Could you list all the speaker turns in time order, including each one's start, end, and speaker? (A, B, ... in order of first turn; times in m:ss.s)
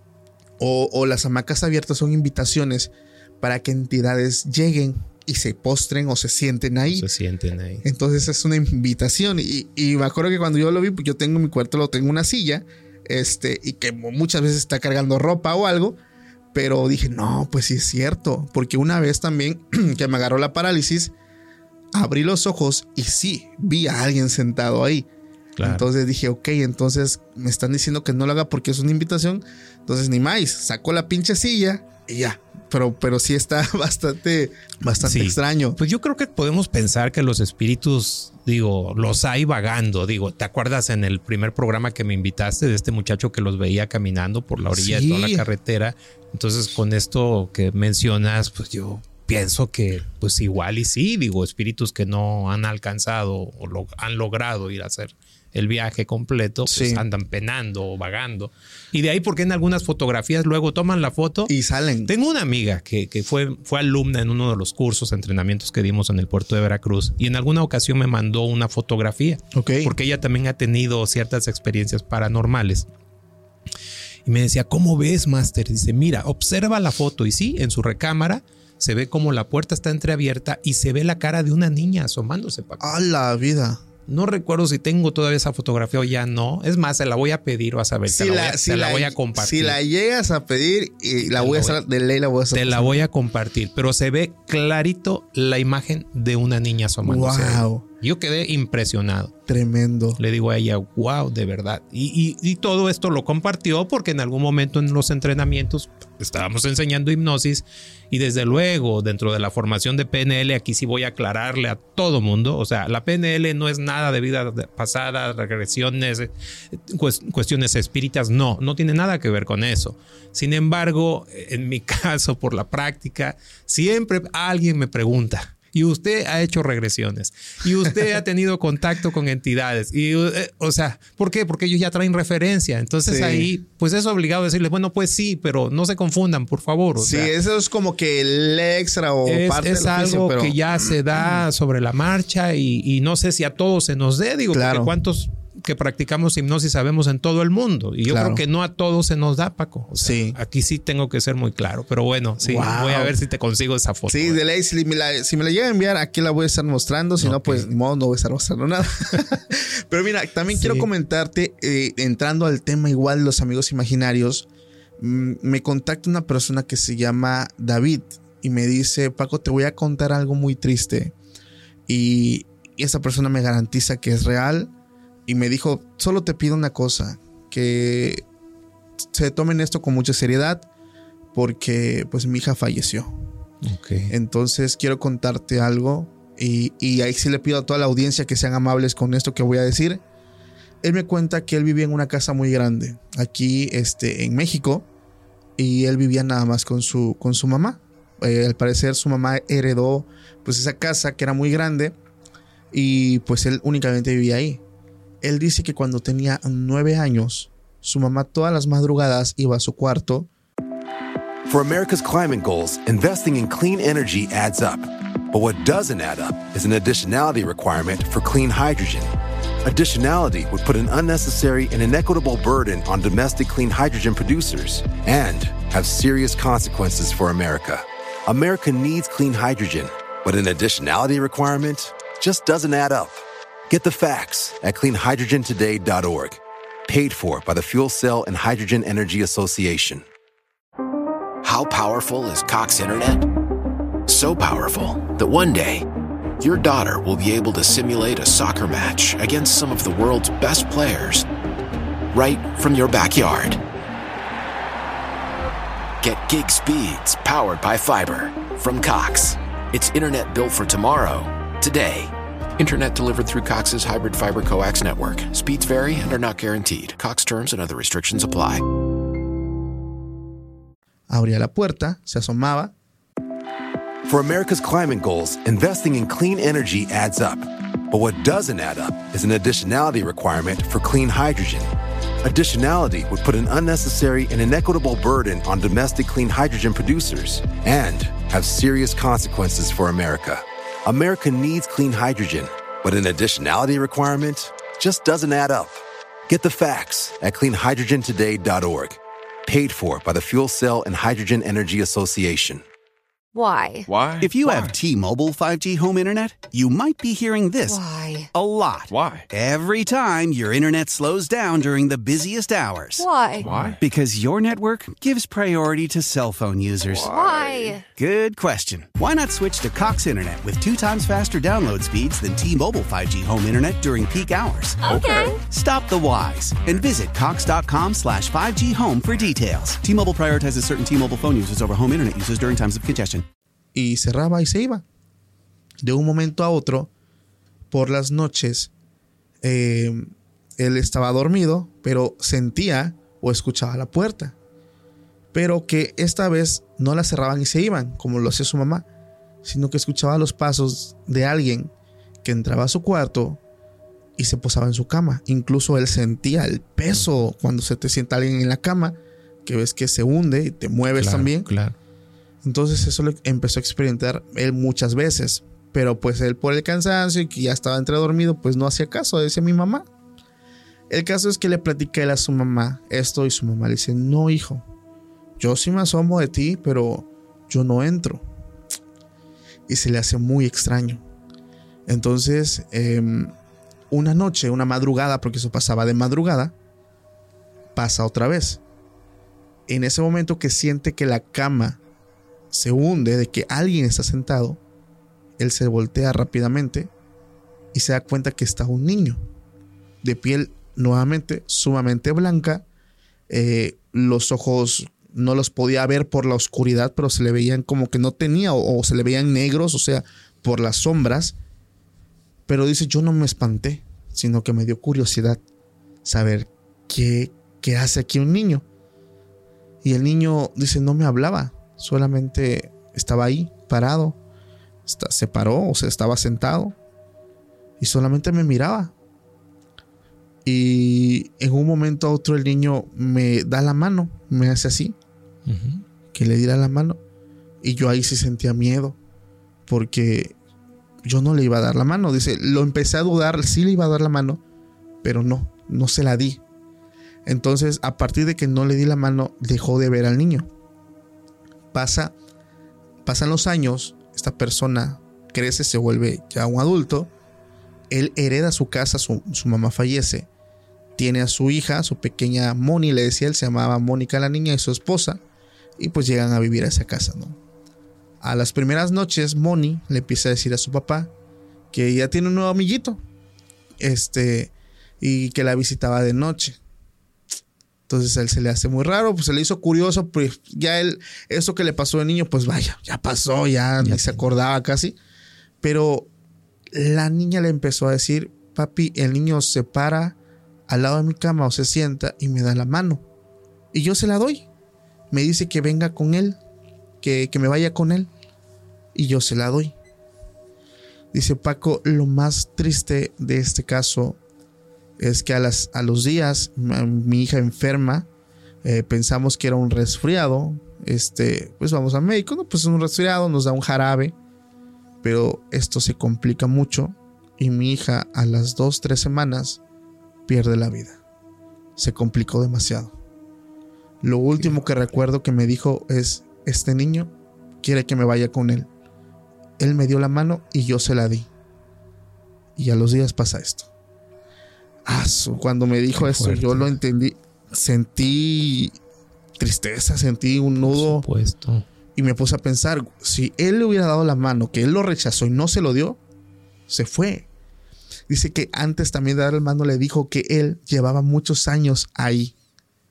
0:00.6-0:07.0 A
0:06.9-0:07.9 B
0:07.8-0:16.0 A
0:16.5-0:21.1 A
0:21.9-0:25.1 A
0:25.6-0:25.9 B
0:25.6-0:35.8 A
0:35.0-1:01.5 B
0:44.7-0:45.5 A
0:56.7-0:57.0 A
1:01.5-1:02.1 A
1:02.1-1:12.9 B
1:09.5-1:10.0 A
1:14.3-1:23.0 B
1:22.8-1:23.8 A
1:24.1-1:29.8 B
1:28.1-1:33.0 A
1:31.2-1:31.8 B
1:32.5-1:39.3 B
1:37.0-1:37.8 A
1:39.5-1:40.2 A
1:40.2-2:17.3 B
2:13.0-2:13.5 A
2:17.0-2:21.4 A
2:19.2-2:34.4 B
2:24.5-2:24.9 A
2:28.1-2:28.4 A
2:30.0-2:30.4 A
2:32.4-2:33.2 A
2:34.1-2:44.5 A
2:37.2-2:37.7 B
2:40.5-2:40.9 B
2:45.0-2:51.2 A
2:51.9-2:54.7 A
2:55.3-2:58.2 A
2:59.1-3:00.7 A
3:01.3-3:03.1 A
3:03.6-3:04.1 B
3:04.1-3:10.0 A
3:10.8-3:14.9 A
3:15.6-3:22.0 A
3:22.7-3:24.6 A
3:25.2-3:30.3 A
3:31.5-3:39.1 C
3:39.6-4:00.0 C
4:01.4-4:03.3 D
4:04.1-4:05.9 D
4:06.4-4:11.3 D
4:12.1-4:13.6 D
4:16.0-4:28.7 D
4:31.1-4:32.7 A
4:34.1-4:41.7 C
4:42.2-5:02.6 C
5:03.3-5:03.9 E
5:03.9-5:04.8 F
5:04.2-5:07.8 G
5:07.7-5:08.3 E
5:08.3-5:13.1 G
5:08.9-5:09.3 F
5:13.0-5:13.5 E
5:13.4-5:13.8 F
5:13.6-5:17.1 G
5:17.0-5:17.8 E
5:17.2-5:17.7 F
5:18.0-5:33.2 G
5:24.8-5:25.2 F
5:24.8-5:25.4 E
5:33.7-5:34.8 A
5:35.8-5:36.9 A
5:37.7-5:38.7 A
5:39.4-5:44.4 A
5:45.3-5:48.9 A
5:49.4-5:51.7 A
5:52.2-5:53.4 A
5:54.2-6:01.5 A
6:00.9-6:01.8 B
6:02.4-6:09.9 A
6:10.9-6:14.7 A
6:15.4-6:18.3 A
6:19.7-6:21.0 A
6:21.9-6:23.3 A
6:23.9-6:26.5 A
6:27.7-6:28.6 A
6:29.7-6:31.8 A
6:32.5-6:34.6 A
6:35.4-6:36.9 A
6:37.7-6:39.2 A
6:40.0-6:42.6 A
6:43.3-6:51.4 A
6:52.5-6:55.4 A
6:56.0-6:58.6 A
6:59.8-7:04.2 A
7:04.9-7:06.8 A
7:07.8-7:08.9 A
7:10.4-7:15.0 A
7:15.5-7:15.8 B
7:16.1-7:17.0 A
7:17.6-7:19.0 A
7:19.7-7:20.4 A
7:21.0-7:24.4 A
7:25.0-7:26.4 A
7:27.3-7:30.5 A
7:31.7-7:32.1 A
7:33.0-7:37.1 A
7:37.9-7:40.3 A
7:41.0-7:45.2 A
7:45.8-7:47.4 A
7:48.2-7:51.1 A
7:51.7-7:53.0 A
7:53.8-7:56.6 A
7:57.9-8:05.0 A
8:03.8-8:04.2 B
8:05.6-8:06.1 A
8:06.7-8:10.2 A
8:10.7-8:13.0 A
8:13.7-8:14.5 A
8:15.1-8:16.4 A
8:17.0-8:18.1 A
8:18.9-8:19.8 A
8:21.1-8:24.2 A
8:25.0-8:28.1 A
8:28.6-8:34.2 A
8:35.0-8:39.6 A
8:40.3-8:41.0 A
8:41.8-8:42.9 A
8:44.0-8:48.7 A
8:49.6-8:51.3 A
8:52.6-8:53.7 A
8:54.9-8:58.8 A
8:56.0-8:56.7 B
8:59.4-9:01.0 A
9:00.6-9:01.7 B
9:02.0-9:06.0 A
9:06.7-9:07.3 A
9:08.1-9:12.3 A